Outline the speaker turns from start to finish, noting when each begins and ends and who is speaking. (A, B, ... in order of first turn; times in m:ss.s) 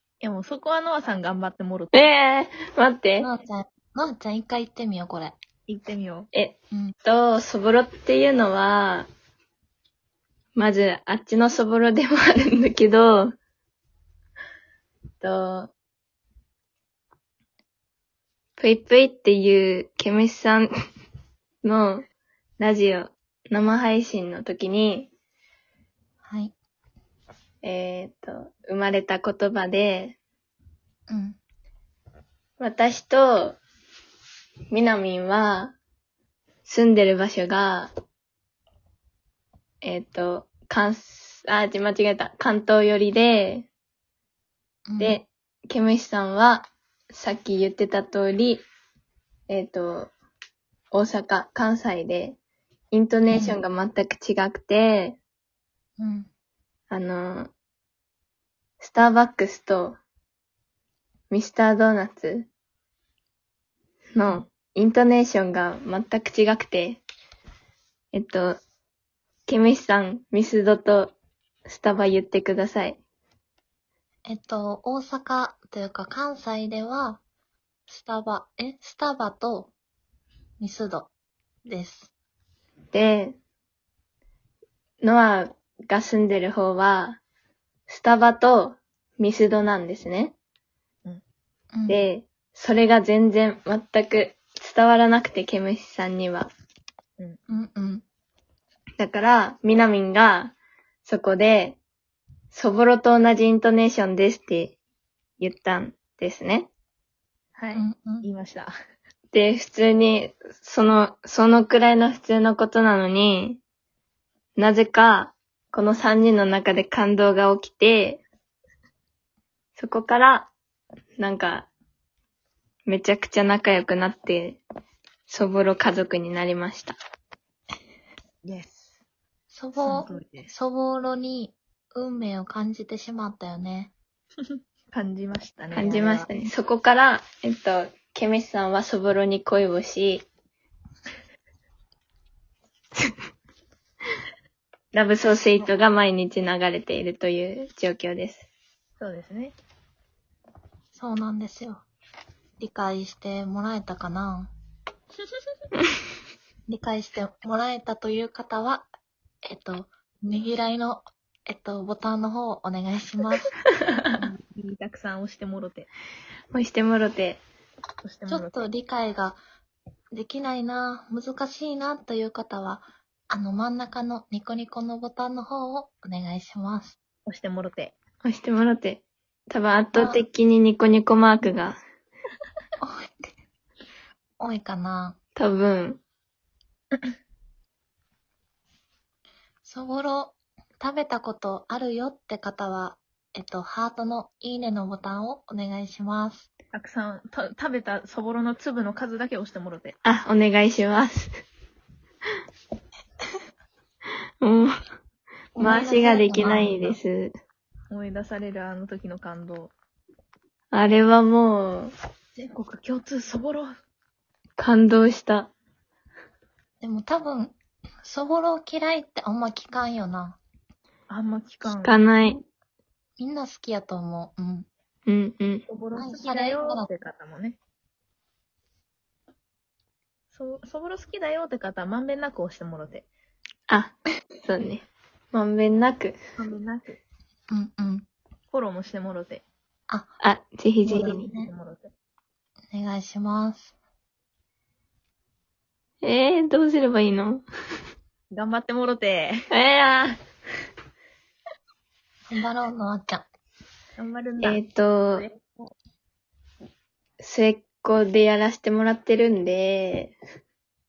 0:00.2-0:02.1 A
0:01.9-0:03.3 B
0:03.2-0:05.4 C
0:05.7-0:06.3 A
0:06.3-0:09.1 B
0:10.6-0:13.3 B
0:15.2-0:15.7 B
0:18.6-0:20.7 B
0:21.6-0:22.1 B
0:22.6-0:25.1 B
0:26.2-0:26.5 C
0:27.6-0:30.2 B
0:31.1-0:31.4 C
0:32.6-0:33.6 B
0:34.7-0:35.8 B
0:36.6-0:37.9 B
0:39.8-0:43.7 B
0:44.9-0:45.2 C
0:45.0-0:48.6 B
0:49.5-0:50.1 B
0:50.9-0:52.4 B
0:52.9-0:55.2 B
0:53.3-0:53.6 C
0:56.0-0:56.3 C
0:56.9-0:57.5 B
0:58.8-1:00.0 B
1:01.3-1:02.5 B
1:04.2-1:07.0 B
1:08.1-1:08.6 B
1:09.5-1:11.2 B
1:11.7-1:13.0 B
1:14.3-1:17.2 C
1:17.9-1:19.7 C
1:20.6-1:21.1 C
1:21.6-1:22.1 C
1:22.9-1:23.4 B
1:25.0-1:27.2 B
1:27.9-1:30.4 B
1:31.7-1:32.0 C
1:31.9-1:36.5 B
1:37.5-1:38.0 C
1:39.0-1:41.8 B
1:42.5-1:44.8 B
1:45.4-1:46.7 B
1:47.6-1:48.7 A
1:47.8-1:48.3 C
1:49.3-1:53.6 B
1:54.6-1:58.2 B
1:59.8-2:00.5 B
2:01.2-2:01.7 B
2:02.9-2:04.6 B
2:05.3-2:07.0 B
2:08.4-2:09.0 A
2:09.5-2:13.9 C
2:09.8-2:10.5 A
2:14.4-2:16.4 A
2:15.7-2:20.2 B
2:24.9-2:28.5 B
2:29.0-2:29.6 A
2:30.9-2:31.8 C
2:32.6-2:34.5 C
2:36.7-2:38.9 C
2:39.4-2:43.5 C
2:44.1-2:45.9 A
2:46.5-2:47.4 B
2:48.0-2:48.7 A
2:48.3-2:49.4 C
2:50.1-2:57.0 C
2:57.3-2:58.0 A
2:58.2-3:01.8 B
2:59.9-3:00.2 C
3:02.8-3:03.1 C
3:04.4-3:05.2 C
3:05.4-3:06.0 B
3:09.6-3:16.5 C
3:16.7-3:20.0 A
3:20.0-3:21.3 B
3:24.4-3:24.7 B
3:25.6-3:27.0 C
3:25.6-3:27.3 B
3:27.9-3:29.7 A
3:30.7-3:31.9 B
3:32.4-3:33.7 A
3:34.6-3:35.5 B
3:36.8-3:40.4 C
3:41.1-3:42.1 A
3:41.6-3:42.4 B
3:43.2-3:44.7 C
3:45.1-3:45.7 B
3:45.7-3:47.6 A
3:46.0-3:46.9 C
3:50.3-3:53.1 A
3:53.7-3:56.2 B
3:56.4-3:57.0 A
3:57.5-3:58.1 C
3:58.5-3:59.4 A
4:00.2-4:01.3 B
4:00.9-4:01.5 C
4:00.9-4:01.9 A
4:02.7-4:03.7 C
4:06.0-4:07.4 B
4:08.3-4:09.3 A
4:09.5-4:10.2 B
4:12.3-4:13.3 C
4:14.0-4:15.7 A
4:14.4-4:15.3 B
4:17.2-4:20.2 B